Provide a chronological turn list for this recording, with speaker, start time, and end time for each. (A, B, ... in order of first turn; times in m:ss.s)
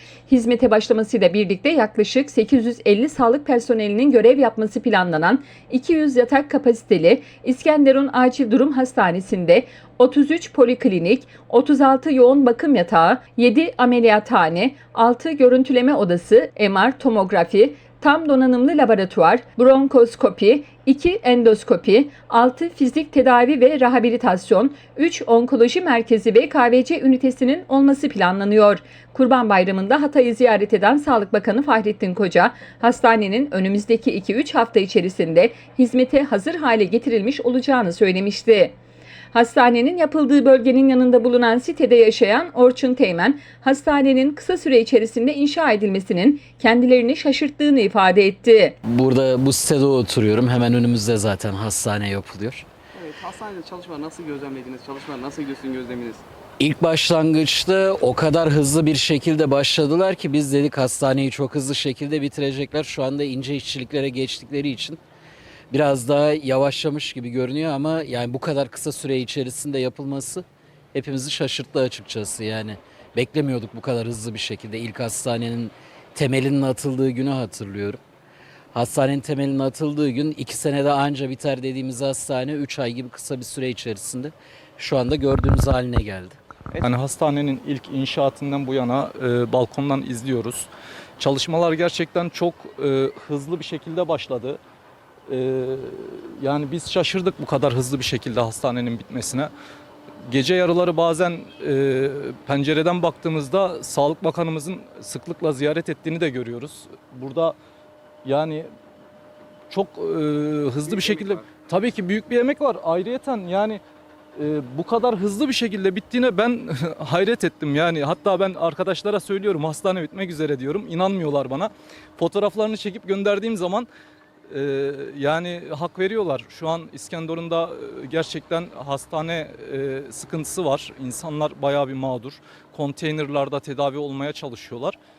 0:00.3-0:38.8 A
0:39.3-0:48.8 A
0:48.8-0:52.7 B
0:53.0-0:56.2 C
0:56.6-1:05.0 B
1:05.7-1:18.0 B
1:18.7-1:26.4 B
1:26.8-1:34.6 D
1:35.3-1:39.5 D
1:40.3-1:47.6 D
1:48.2-1:48.7 D
1:49.7-1:53.8 D
1:50.9-1:51.4 C
1:54.4-2:03.9 D
2:04.5-2:15.0 D